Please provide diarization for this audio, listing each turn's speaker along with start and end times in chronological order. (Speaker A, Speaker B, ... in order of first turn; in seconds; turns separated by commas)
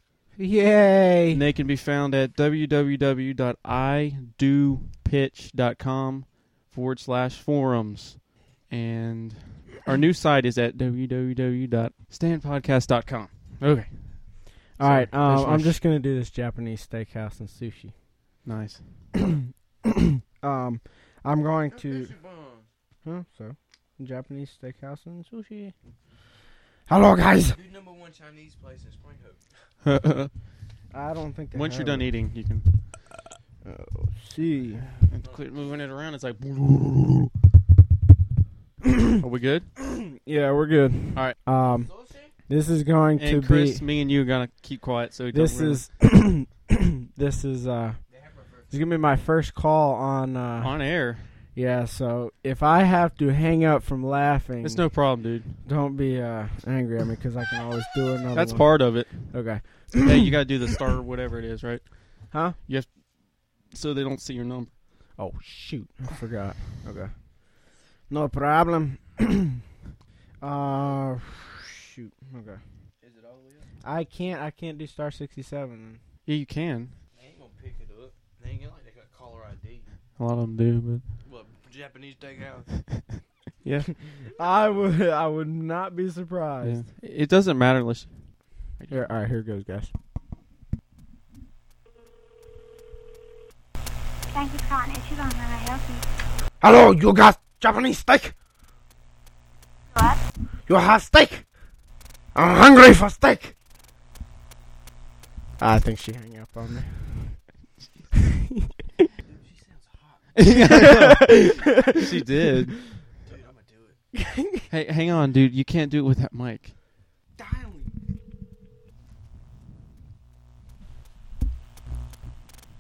Speaker A: 0.4-1.4, Speaker B: 1.3-15.8, Speaker A: 14.8-17.9, Speaker B: 18.4-18.8, Speaker A: 19.1-22.1, Speaker C: 21.7-22.7, Speaker A: 23.0-25.7, Speaker A: 26.9-27.6, Speaker C: 27.5-29.4, Speaker B: 29.8-30.3, Speaker A: 30.9-32.1, Speaker B: 31.5-32.7, Speaker A: 33.6-34.9, Speaker B: 35.1-37.3, Speaker C: 35.2-35.8, Speaker A: 38.9-39.1, Speaker B: 39.2-39.7, Speaker A: 39.8-43.9, Speaker C: 41.8-42.3, Speaker B: 43.2-45.8, Speaker A: 45.3-48.0, Speaker C: 48.1-48.8, Speaker A: 48.7-51.0, Speaker B: 50.6-51.3, Speaker A: 51.5-55.0, Speaker B: 54.6-55.6, Speaker A: 55.6-60.3, Speaker B: 58.3-62.9, Speaker A: 62.3-62.6, Speaker B: 63.7-64.7, Speaker A: 65.2-67.1, Speaker A: 68.1-69.6, Speaker A: 70.4-72.6, Speaker C: 73.0-73.7, Speaker A: 73.8-76.0, Speaker B: 76.3-76.9, Speaker C: 77.1-79.9, Speaker B: 80.2-81.0, Speaker C: 81.2-82.7, Speaker B: 83.6-83.9, Speaker A: 84.4-86.9, Speaker B: 86.6-88.1, Speaker B: 88.8-89.1, Speaker A: 88.9-89.9, Speaker D: 94.3-96.0, Speaker A: 96.6-98.3, Speaker D: 99.9-100.2, Speaker A: 100.7-101.5, Speaker A: 102.3-103.5, Speaker A: 105.6-107.4, Speaker A: 108.3-109.1, Speaker C: 109.2-110.5, Speaker B: 110.3-112.8, Speaker A: 110.5-112.3, Speaker C: 113.2-114.0, Speaker A: 114.1-114.7, Speaker B: 114.7-116.7, Speaker C: 117.4-117.9